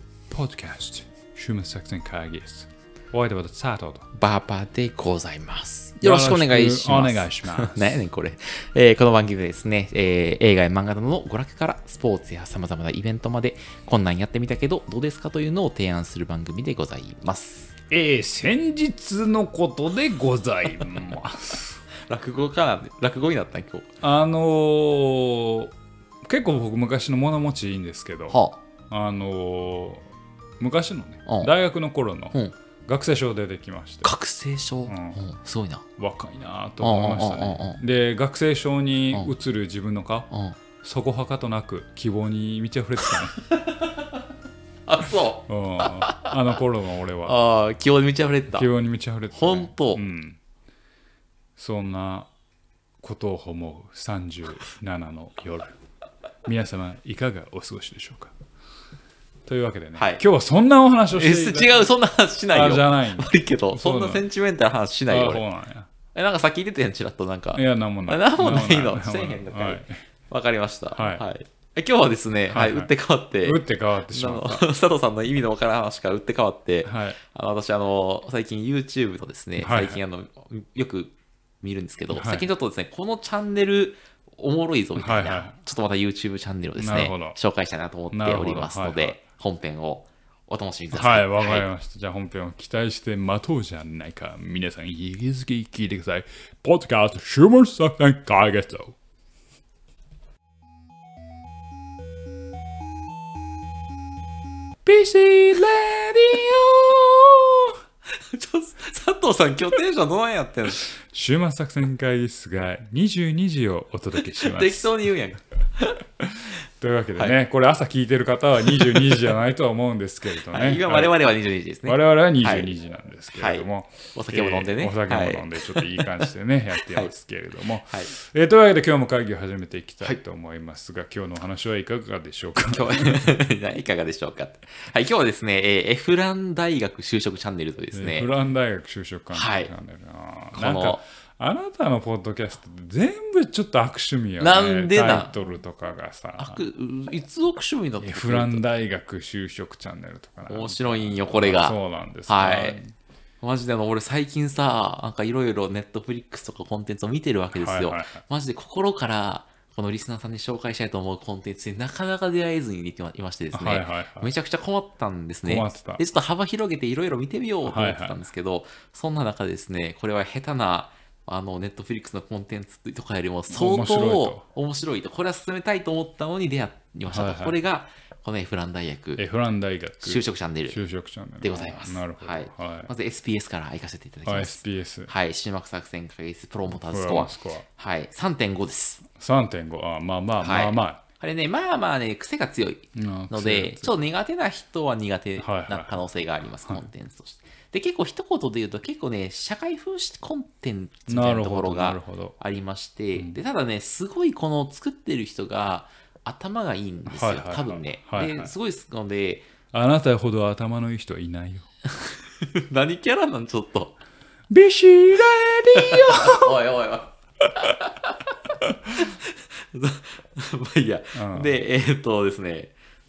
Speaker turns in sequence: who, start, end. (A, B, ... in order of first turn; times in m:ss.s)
0:00.3-0:04.1 A
0:04.1-0:17.7 B
0:06.0-0:08.0 A
0:17.9-0:21.8 A
0:22.1-0:23.9 B
0:24.0-0:25.7 A
0:26.2-0:34.1 A
0:28.3-0:28.6 B
0:31.2-0:31.5 B
0:34.0-0:35.8 B
0:34.9-0:35.2 A
0:36.0-0:40.3 A
0:36.8-0:37.8 B
0:40.3-0:40.6 B
0:40.8-0:43.4 A
0:43.3-0:44.1 B
0:44.8-0:46.4 B
0:45.5-0:47.4 A
0:47.2-0:48.7 B
0:48.5-0:50.4 A
0:49.3-0:50.1 B
0:51.6-0:52.3 A
0:53.0-0:55.8 A
0:56.4-0:58.3 A
0:59.4-1:01.7 A
1:00.0-1:00.2 B
1:01.1-1:05.4 B
1:02.5-1:04.2 A
1:05.1-1:05.9 A
1:06.1-1:31.7 B
1:07.5-1:10.0 A
1:10.9-1:11.2 A
1:12.5-1:12.9 A
1:13.4-1:14.6 A
1:16.8-1:17.2 A
1:19.6-1:20.0 A
1:22.1-1:22.5 A
1:25.0-1:25.6 A
1:26.8-1:27.4 A
1:28.1-1:29.2 A
1:30.9-1:39.0 A
1:44.8-1:47.7 A
1:48.2-1:50.9 B
1:50.8-1:54.9 A
1:54.3-1:56.0 B
1:56.2-2:01.2 A
1:58.7-1:59.3 B
2:00.5-2:02.7 B
2:01.8-2:13.2 A
2:03.3-2:06.3 B
2:06.8-2:07.1 B
2:07.9-2:08.1 B
2:12.7-2:18.3 B
2:17.9-2:26.6 A
2:19.3-2:19.7 B
2:20.5-2:21.0 B
2:24.4-2:25.3 B
2:26.4-2:28.6 B
2:28.0-2:32.9 A
2:30.5-2:32.8 B
2:33.4-2:59.2 B
2:37.5-2:38.2 A
2:43.5-2:44.3 A
2:45.4-2:46.0 A
2:47.6-2:48.2 A
2:53.5-2:54.4 A
2:57.1-2:57.6 A
2:59.2-3:02.9 A
3:00.0-3:00.8 B
3:01.4-3:09.0 B
3:04.2-3:05.1 A
3:06.9-3:07.6 A
3:09.1-3:11.0 A
3:10.4-3:29.5 B
3:12.9-3:13.9 A
3:15.4-3:16.0 A
3:21.1-3:22.4 A
3:27.1-3:28.5 A
3:29.7-3:31.7 A
3:31.9-3:34.0 B
3:34.5-3:36.5 A
3:35.7-3:38.3 B
3:38.6-3:39.0 A
3:38.9-3:42.7 B
3:41.1-3:41.5 A